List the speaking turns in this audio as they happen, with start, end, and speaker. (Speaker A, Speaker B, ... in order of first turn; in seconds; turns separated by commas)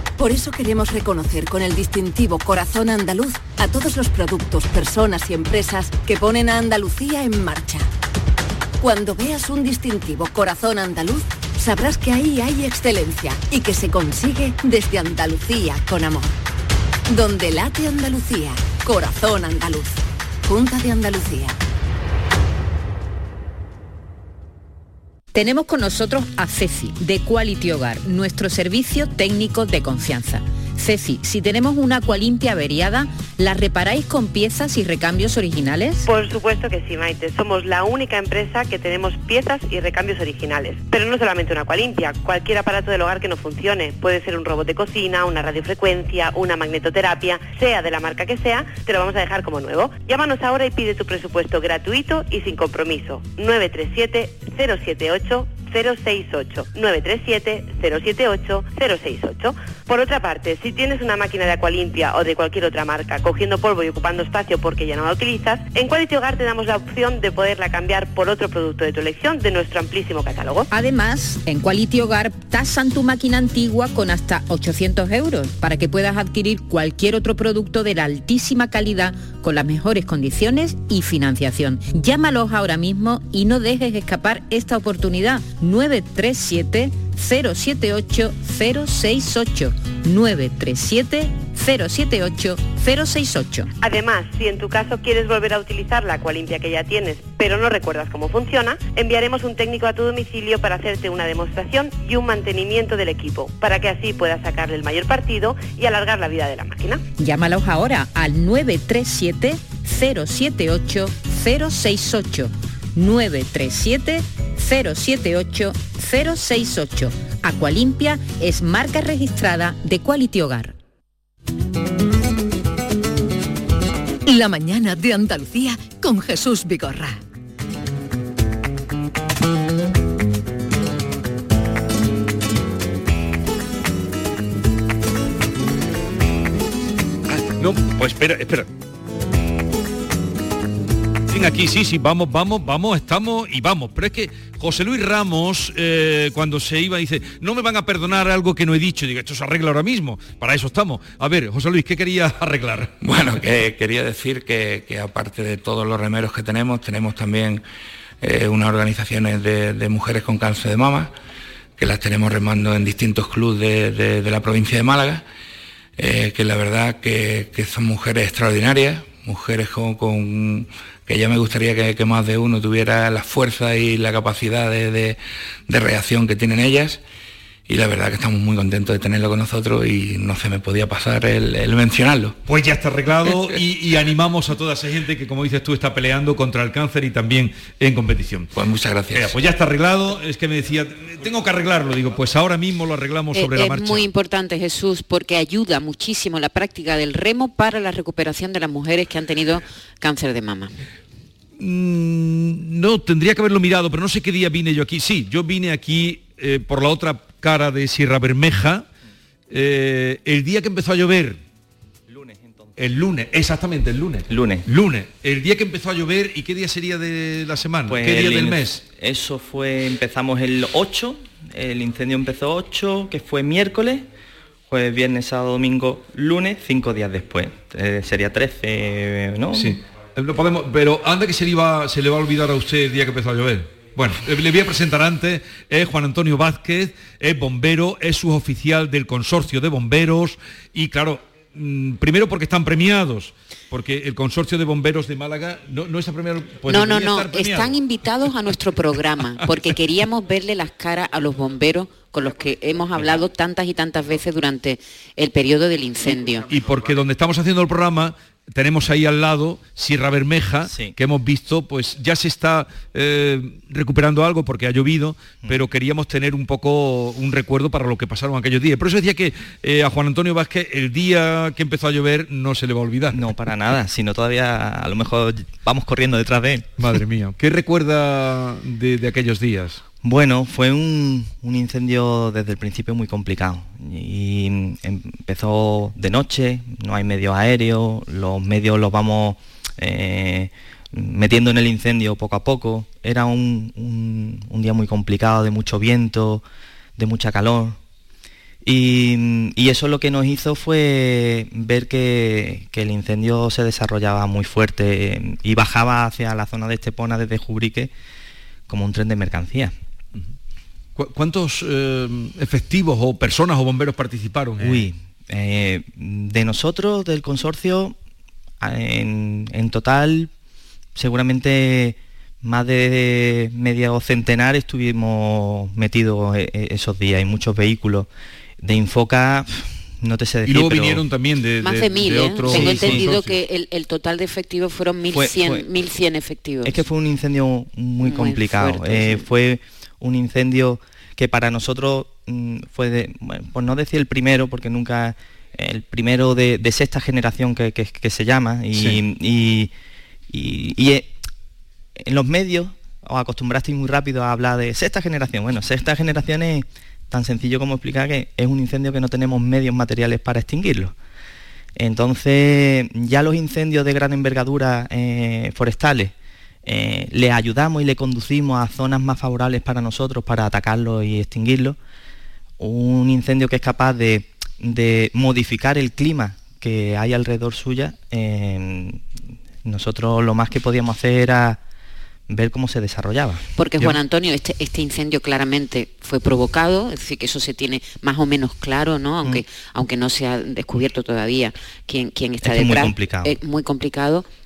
Speaker A: 0.2-7.9, Speaker A: 8.8-16.4, Speaker A: 17.1-21.6, Speaker B: 25.3-36.0, Speaker C: 36.0-70.7, Speaker B: 70.7-93.7, Speaker C: 93.8-107.0, Speaker B: 107.2-120.8, Speaker D: 124.2-127.2, Speaker E: 137.3-138.7, Speaker E: 141.3-152.9, Speaker F: 153.0-157.6, Speaker F: 158.2-161.1, Speaker F: 161.8-165.2, Speaker F: 166.0-177.0, Speaker F: 177.7-182.3, Speaker E: 182.5-188.5, Speaker F: 188.5-189.3, Speaker E: 189.1-194.1, Speaker G: 193.3-200.8, Speaker E: 201.6-208.8, Speaker E: 209.5-211.4, Speaker H: 212.1-212.7, Speaker E: 212.8-218.8, Speaker H: 214.3-214.6, Speaker H: 217.9-224.1, Speaker H: 224.7-229.8, Speaker E: 229.5-247.8, Speaker G: 246.7-256.5, Speaker E: 256.5-273.4, Speaker H: 260.6-260.9, Speaker H: 273.1-276.7, Speaker E: 276.8-279.8, Speaker H: 280.0-296.4, Speaker H: 297.0-297.8, Speaker H: 298.6-307.9, Speaker H: 308.7-309.7, Speaker E: 311.0-314.9, Speaker H: 314.6-317.9, Speaker H: 318.6-320.3, Speaker H: 320.9-328.1, Speaker H: 328.6-331.0, Speaker E: 330.4-333.4, Speaker G: 331.6-336.8, Speaker H: 332.5-333.1, Speaker H: 335.1-335.6, Speaker H: 336.6-349.7, Speaker G: 338.0-339.2, Speaker E: 348.7-349.0, Speaker H: 350.3-351.1, Speaker H: 352.0-360.9, Speaker H: 361.8-366.1, Speaker H: 366.6-371.8, Speaker H: 372.6-379.1, Speaker H: 379.6-381.6, Speaker H: 382.3-383.9, Speaker G: 383.6-394.3, Speaker H: 392.4-393.4